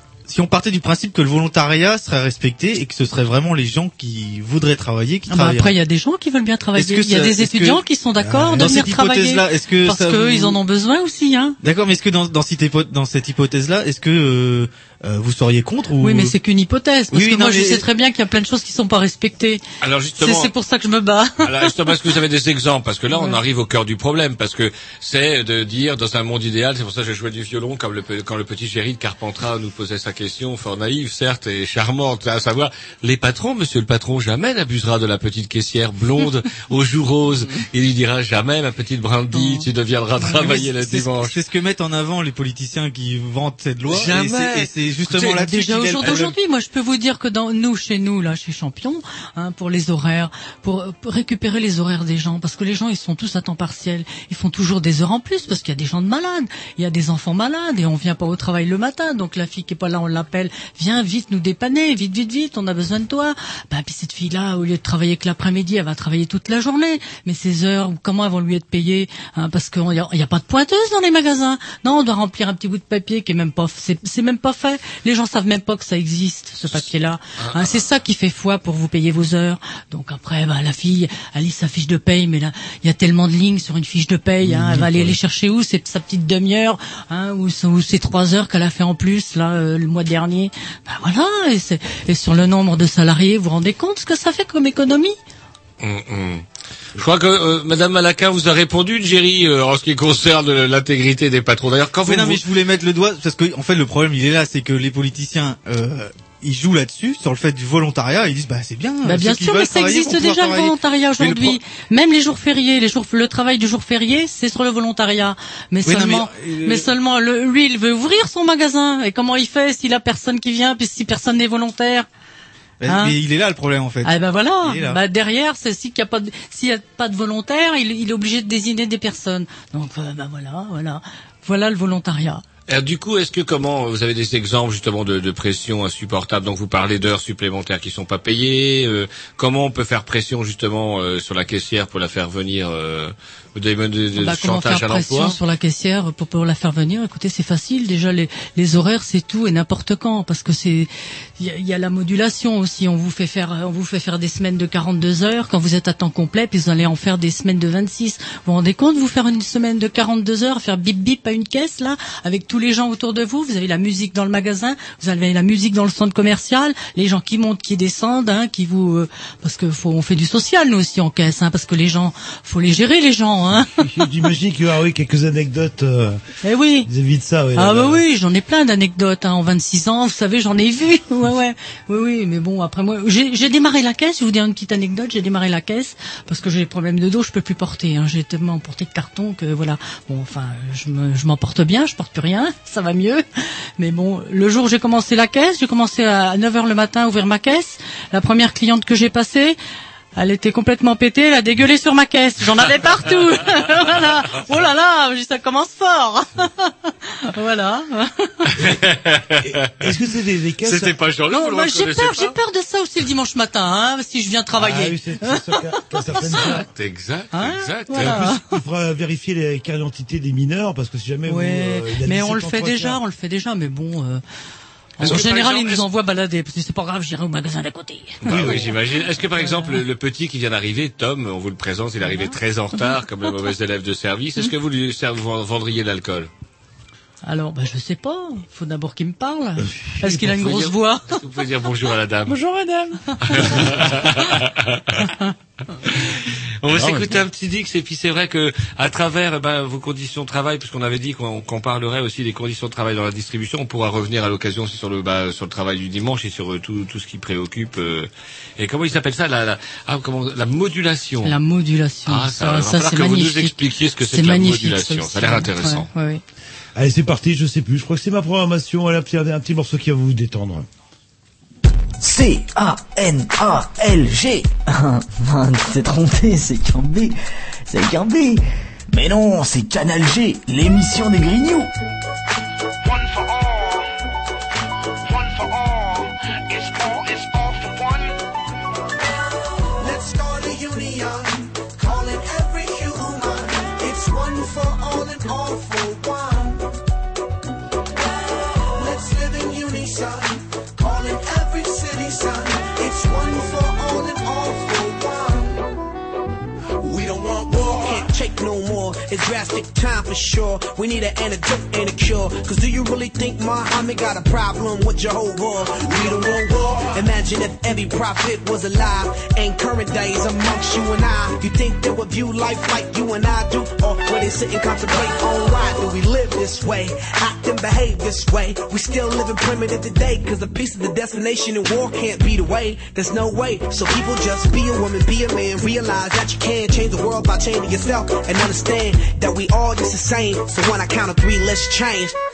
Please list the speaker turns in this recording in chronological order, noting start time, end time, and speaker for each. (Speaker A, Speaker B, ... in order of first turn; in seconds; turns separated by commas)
Speaker A: 0.3-5.8, Speaker B: 5.3-11.6, Speaker A: 6.8-7.8, Speaker C: 8.2-8.7, Speaker A: 8.5-10.6, Speaker A: 11.6-16.3, Speaker B: 16.0-19.6, Speaker A: 17.1-17.9, Speaker D: 19.8-20.5, Speaker B: 20.2-22.0, Speaker D: 21.4-41.4, Speaker B: 23.1-23.4, Speaker B: 39.3-39.6, Speaker B: 40.2-40.6, Speaker A: 40.2-46.3, Speaker D: 43.9-45.4, Speaker B: 45.4-95.2, Speaker D: 77.4-77.9, Speaker C: 84.4-85.2, Speaker D: 95.8-96.4, Speaker D: 96.9-102.4, Speaker A: 102.0-111.6, Speaker B: 109.0-122.1, Speaker A: 115.8-116.9, Speaker A: 122.8-125.0, Speaker B: 122.9-123.2, Speaker B: 124.0-132.4, Speaker D: 132.7-145.3, Speaker B: 144.2-173.8, Speaker C: 173.6-176.2, Speaker B: 176.4-176.9, Speaker C: 176.8-178.0, Speaker B: 177.6-193.2, Speaker B: 193.8-199.6, Speaker B: 200.2-208.5, Speaker D: 208.6-209.8, Speaker C: 209.4-210.9, Speaker D: 210.6-212.3, Speaker B: 211.3-216.5, Speaker C: 214.6-216.7, Speaker D: 216.3-218.3, Speaker B: 217.3-218.4, Speaker C: 217.9-223.0, Speaker B: 221.3-224.2, Speaker B: 225.0-228.8, Speaker D: 225.0-225.8, Speaker C: 228.2-228.7, Speaker D: 228.2-236.3, Speaker B: 229.4-229.8, Speaker B: 237.2-241.2, Speaker D: 240.0-242.4, Speaker B: 242.3-244.2, Speaker D: 243.3-245.0, Speaker B: 245.0-245.3, Speaker D: 245.8-261.3, Speaker C: 246.8-247.1, Speaker B: 261.2-266.2, Speaker D: 262.1-265.9, Speaker C: 266.7-270.7, Speaker E: 272.0-277.1, Speaker E: 277.7-281.7, Speaker F: 282.8-283.8, Speaker F: 285.1-288.1, Speaker F: 289.8-296.6, Speaker F: 298.7-305.6, Speaker F: 306.8-342.1